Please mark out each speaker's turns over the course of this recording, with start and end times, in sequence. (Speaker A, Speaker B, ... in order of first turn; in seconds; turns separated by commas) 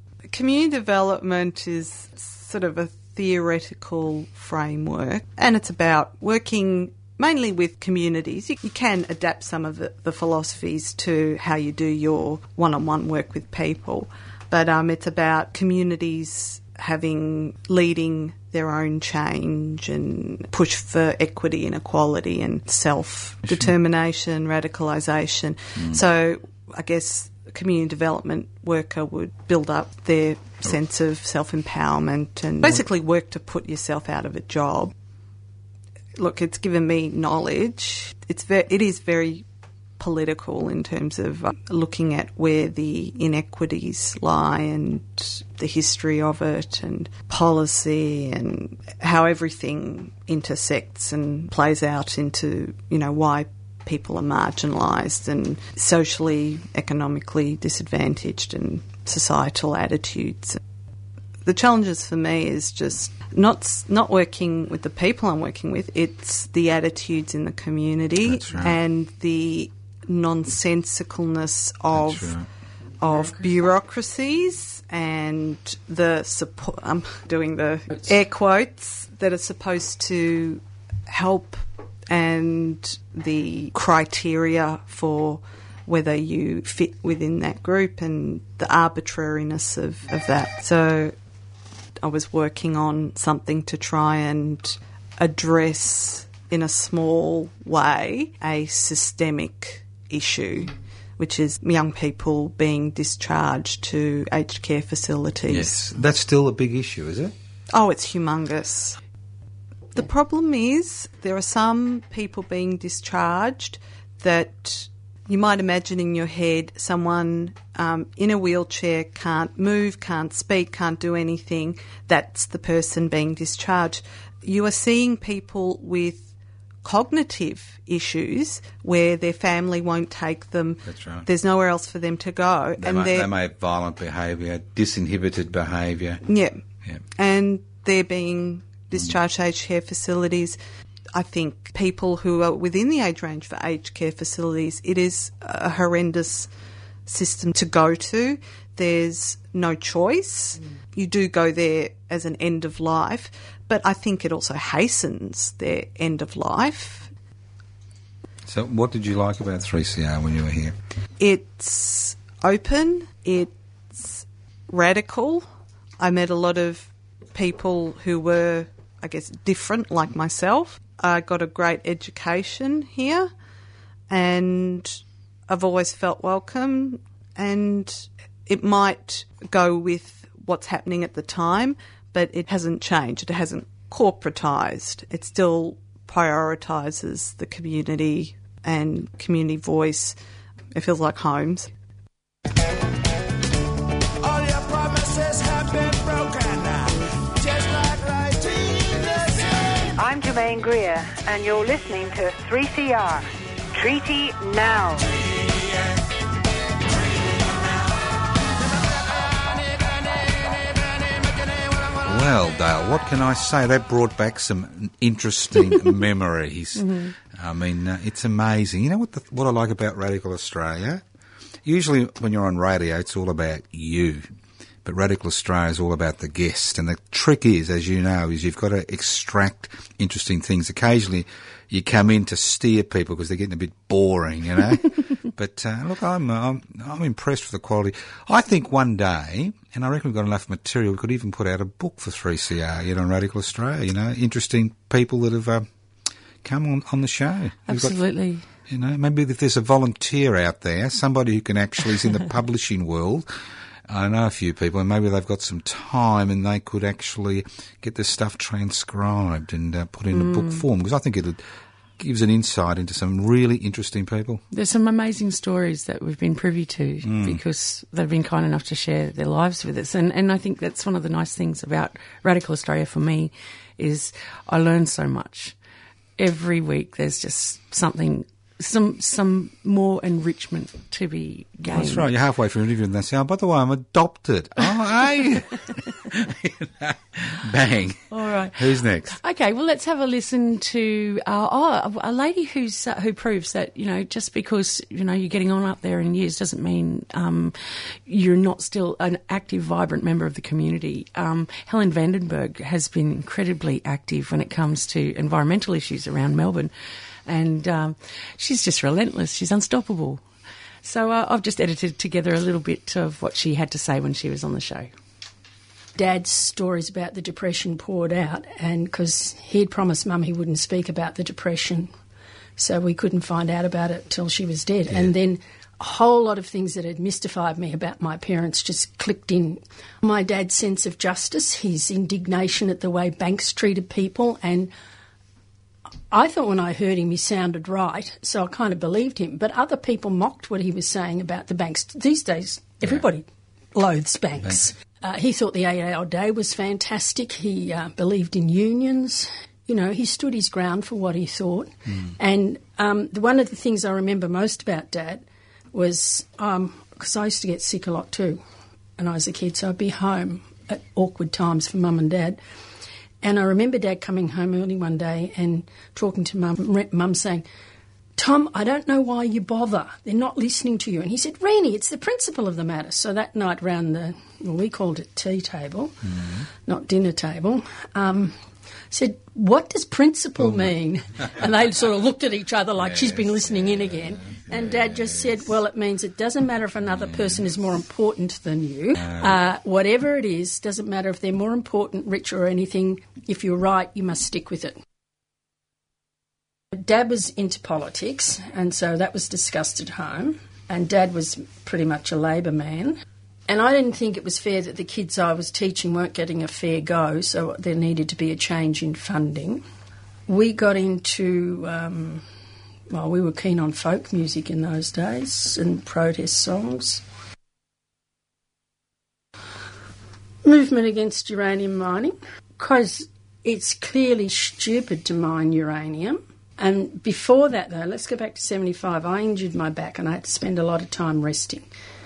Speaker A: 0.3-34.9, Speaker B: 23.5-23.7, Speaker B: 25.8-26.0, Speaker A: 36.2-39.5, Speaker A: 40.0-60.6, Speaker A: 61.5-72.4, Speaker B: 68.2-68.8, Speaker B: 71.9-72.5, Speaker A: 73.0-91.2, Speaker A: 92.0-105.8, Speaker B: 105.5-107.3, Speaker A: 107.7-109.0, Speaker A: 109.9-126.3, Speaker A: 126.8-133.3, Speaker B: 130.8-131.3, Speaker B: 132.8-136.2, Speaker A: 136.3-136.6, Speaker A: 137.2-140.6, Speaker A: 141.1-146.5, Speaker A: 147.1-157.1, Speaker B: 158.5-160.8, Speaker A: 161.2-165.5, Speaker A: 166.0-173.3, Speaker A: 174.1-190.2, Speaker A: 190.7-191.7, Speaker C: 199.9-205.2, Speaker B: 212.0-221.0, Speaker D: 216.8-217.2, Speaker B: 221.6-224.3, Speaker B: 224.8-245.7, Speaker B: 246.4-248.0, Speaker D: 247.7-248.4, Speaker B: 248.7-253.3, Speaker B: 253.9-261.4, Speaker D: 260.1-260.6, Speaker B: 262.0-264.4, Speaker D: 264.5-275.6, Speaker B: 267.0-267.4, Speaker D: 276.2-282.1, Speaker B: 281.7-289.2, Speaker D: 288.1-306.7, Speaker D: 307.3-310.2, Speaker D: 310.8-314.9, Speaker E: 316.0-321.9, Speaker E: 322.6-334.7, Speaker E: 336.1-358.4, Speaker E: 359.0-362.4, Speaker E: 363.2-367.4, Speaker E: 368.2-376.0, Speaker B: 376.1-376.5, Speaker E: 376.7-378.4, Speaker E: 378.9-394.8, Speaker B: 382.8-385.4, Speaker B: 386.9-387.4, Speaker B: 389.0-389.4, Speaker E: 396.7-409.6, Speaker E: 410.3-412.2, Speaker E: 412.9-417.0, Speaker E: 420.4-431.7